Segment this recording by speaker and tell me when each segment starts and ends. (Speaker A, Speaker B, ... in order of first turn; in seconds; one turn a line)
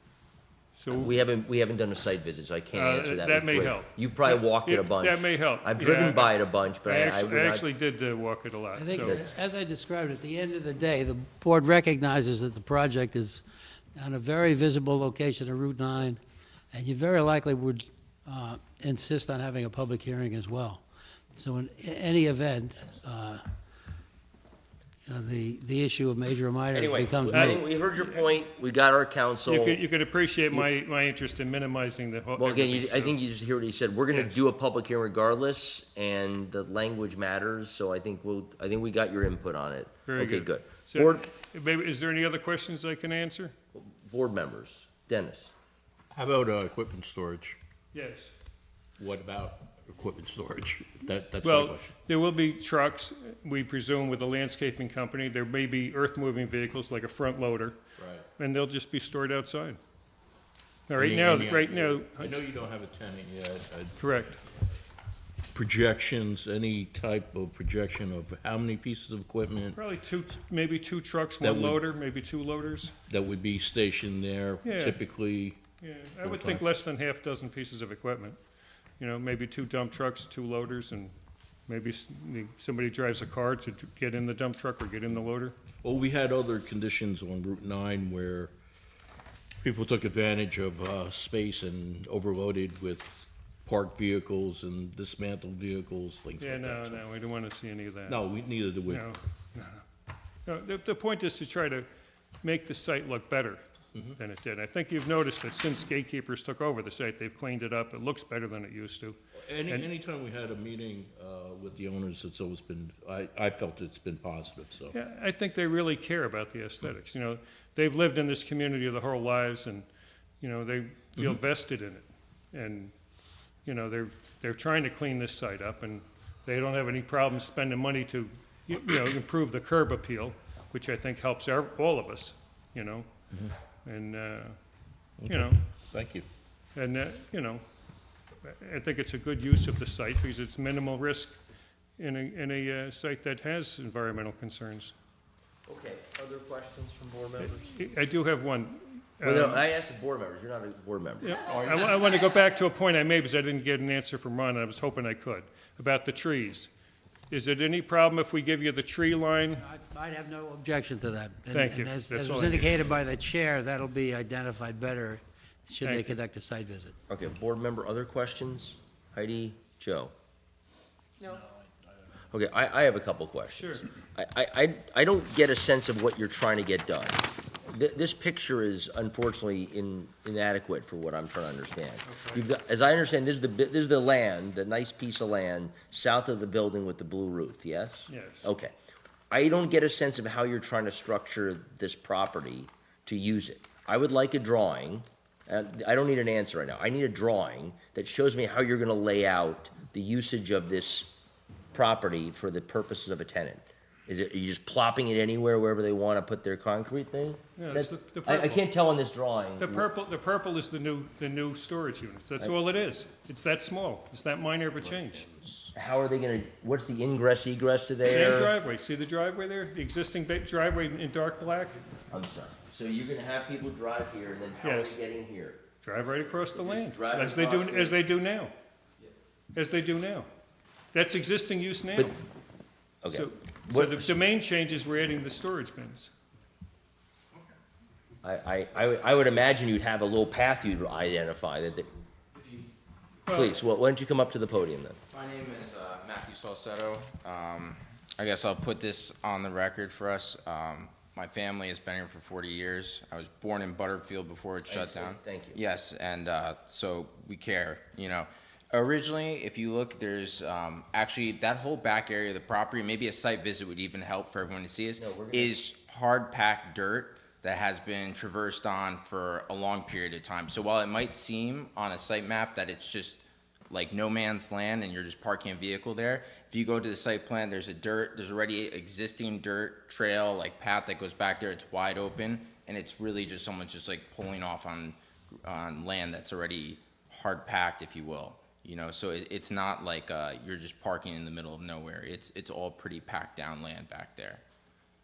Speaker A: 0.7-1.2
Speaker B: 0.9-7.7
Speaker A: 2.7-9.2
Speaker C: 8.7-13.4
Speaker B: 8.9-9.2
Speaker C: 13.9-16.2
Speaker C: 16.7-20.8
Speaker C: 21.4-23.4
Speaker C: 25.1-27.6
Speaker B: 26.7-29.8
Speaker A: 27.3-28.2
Speaker A: 29.5-33.1
Speaker B: 32.4-41.2
Speaker A: 40.1-43.5
Speaker B: 43.7-45.5
Speaker D: 46.1-47.6
Speaker A: 47.9-48.3
Speaker D: 49.0-51.9
Speaker A: 51.4-57.8
Speaker D: 58.0-58.2
Speaker A: 58.4-59.8
Speaker A: 60.9-62.4
Speaker D: 61.0-64.2
Speaker A: 64.0-64.4
Speaker D: 65.5-69.8
Speaker A: 69.7-72.9
Speaker D: 71.4-71.8
Speaker D: 73.1-75.6
Speaker A: 74.6-75.0
Speaker A: 75.8-78.4
Speaker D: 76.2-76.6
Speaker A: 79.0-81.1
Speaker A: 81.7-85.5
Speaker D: 85.8-88.5
Speaker D: 89.6-97.0
Speaker A: 96.4-98.2
Speaker D: 98.1-99.1
Speaker A: 98.9-99.8
Speaker A: 100.5-101.9
Speaker A: 102.4-103.6
Speaker A: 104.2-109.2
Speaker D: 109.5-114.9
Speaker A: 114.9-119.8
Speaker A: 120.4-122.9
Speaker A: 123.6-133.1
Speaker A: 133.8-134.6
Speaker D: 135.2-136.2
Speaker A: 135.3-135.5
Speaker A: 136.7-137.6
Speaker A: 138.4-141.3
Speaker A: 142.0-144.9
Speaker B: 145.7-147.7
Speaker A: 147.4-149.6
Speaker B: 149.2-151.4
Speaker A: 151.2-156.7
Speaker D: 151.4-151.9
Speaker A: 157.3-159.7
Speaker C: 159.6-166.9
Speaker A: 161.5-162.9
Speaker A: 165.8-166.2
Speaker B: 167.1-170.1
Speaker B: 172.3-188.7
Speaker A: 173.5-173.8
Speaker A: 182.0-182.5
Speaker A: 188.1-188.5
Speaker B: 189.3-201.1
Speaker B: 201.7-209.9
Speaker A: 207.6-208.6
Speaker A: 209.6-215.3
Speaker B: 215.3-218.5
Speaker A: 218.0-221.8
Speaker B: 222.1-225.6
Speaker A: 224.6-225.0
Speaker A: 225.8-228.5
Speaker B: 226.5-228.0
Speaker A: 229.5-230.3
Speaker A: 230.9-232.1
Speaker B: 233.0-234.1
Speaker A: 233.1-236.1
Speaker B: 238.2-241.9
Speaker E: 242.3-242.7
Speaker A: 243.3-243.5
Speaker B: 243.3-245.0
Speaker E: 245.1-294.4
Speaker B: 254.7-255.6
Speaker B: 265.0-265.6